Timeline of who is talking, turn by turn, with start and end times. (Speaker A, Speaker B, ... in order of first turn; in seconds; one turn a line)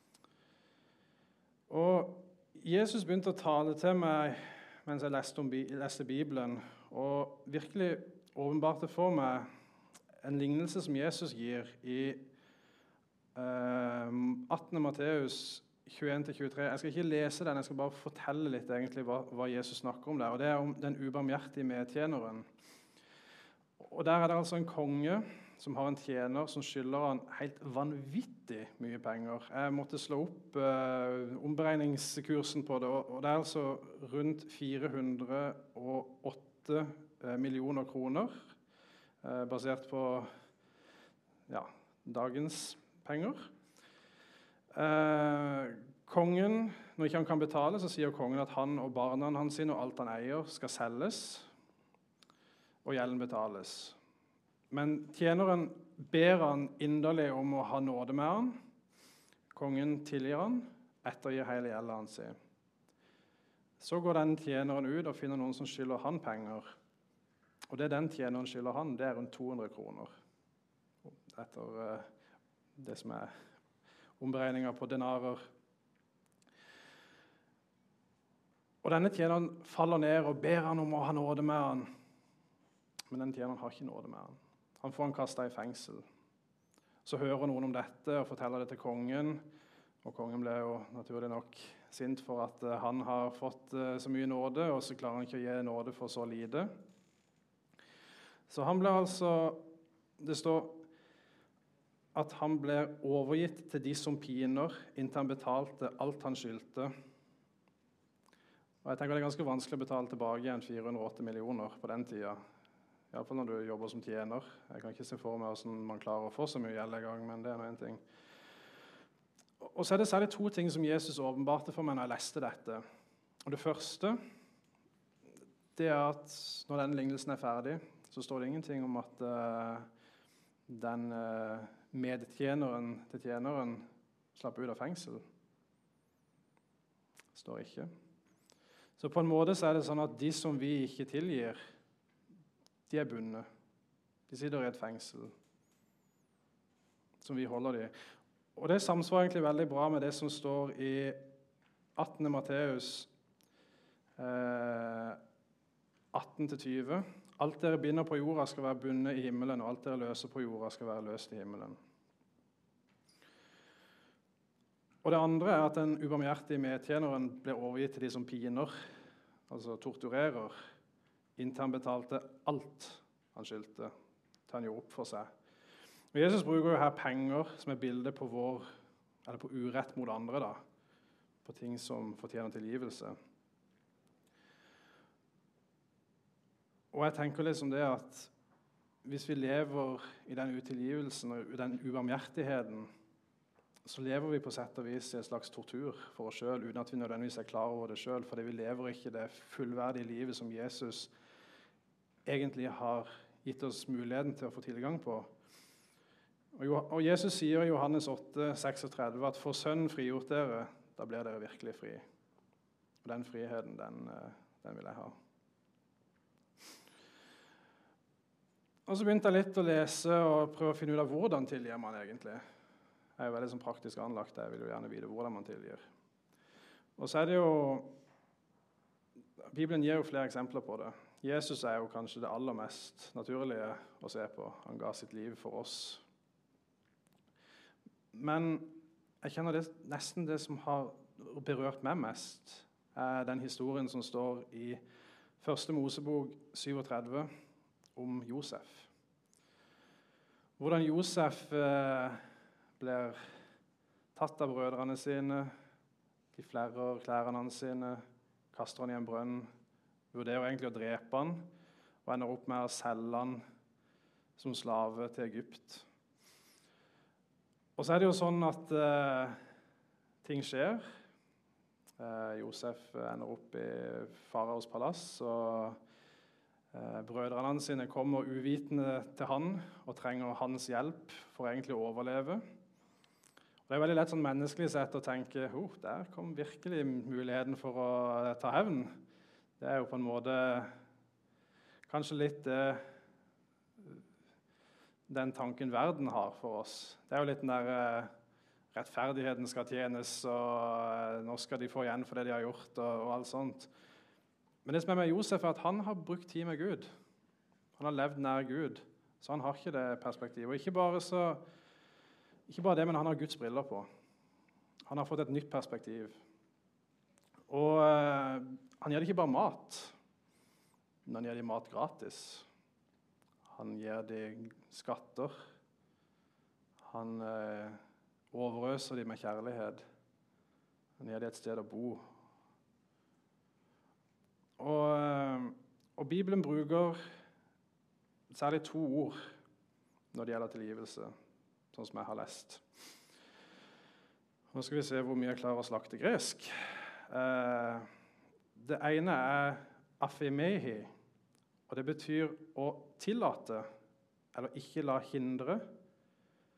Speaker A: 1.7-9.5
Speaker A: 10.2-12.3
Speaker A: 13.3-22.5
Speaker A: 23.8-38.5
Speaker A: 39.2-40.3
Speaker A: 41.5-43.5
Speaker A: 44.7-51.5
Speaker A: 52.8-54.0
Speaker A: 54.7-58.6
Speaker A: 59.5-62.4
Speaker A: 63.8-66.7
Speaker A: 67.7-70.1
Speaker A: 71.0-72.1
Speaker A: 72.8-73.3
Speaker A: 74.2-75.5
Speaker A: 78.8-81.9
Speaker A: 83.1-86.0
Speaker A: 87.0-89.4
Speaker A: 90.0-96.7
Speaker A: 98.5-99.7
Speaker A: 100.2-100.8
Speaker A: 102.1-106.9
Speaker A: 108.8-112.4
Speaker A: 113.1-118.0
Speaker A: 119.6-122.8
Speaker A: 123.4-124.2
Speaker A: 125.8-129.9
Speaker A: 130.7-135.2
Speaker A: 137.3-137.9
Speaker A: 139.0-141.6
Speaker A: 142.9-143.4
Speaker A: 144.3-145.3
Speaker A: 147.2-147.9
Speaker A: 148.6-151.3
Speaker A: 152.0-153.1
Speaker A: 154.2-155.2
Speaker A: 156.1-161.8
Speaker A: 165.0-168.8
Speaker A: 169.5-170.6
Speaker A: 171.4-173.9
Speaker A: 174.5-175.3
Speaker A: 176.1-178.7
Speaker A: 179.2-180.6
Speaker A: 181.4-183.2
Speaker A: 186.9-188.3
Speaker A: 189.0-192.9
Speaker A: 193.8-201.1
Speaker A: 202.2-205.3
Speaker A: 206.5-212.0
Speaker A: 213.0-215.1
Speaker A: 218.9-222.4
Speaker A: 223.2-225.8
Speaker A: 227.0-227.9
Speaker A: 229.5-236.0
Speaker A: 238.1-244.8
Speaker A: 245.4-247.3
Speaker A: 247.9-248.9
Speaker A: 250.6-252.2
Speaker A: 252.8-253.2
Speaker A: 254.1-255.5
Speaker A: 256.3-259.5
Speaker A: 260.1-261.5
Speaker A: 262.0-263.4
Speaker A: 264.4-265.9
Speaker A: 267.8-269.4
Speaker A: 270.2-270.9
Speaker A: 272.0-275.8
Speaker A: 276.7-282.4
Speaker A: 283.7-289.0
Speaker A: 289.6-290.7
Speaker A: 291.9-292.8
Speaker A: 295.1-298.1
Speaker A: 298.7-303.7
Speaker A: 304.6-306.9
Speaker A: 307.8-311.4
Speaker A: 312.5-313.9
Speaker A: 314.9-316.2
Speaker A: 317.5-319.9
Speaker A: 321.1-322.5
Speaker A: 323.5-325.4
Speaker A: 326.8-327.8
Speaker A: 328.3-329.8
Speaker A: 331.0-332.0
Speaker A: 334.6-337.0
Speaker A: 338.3-339.2
Speaker A: 340.1-341.1
Speaker A: 341.7-342.6
Speaker A: 344.5-347.9
Speaker A: 348.5-350.9
Speaker A: 351.7-353.6
Speaker A: 354.3-355.7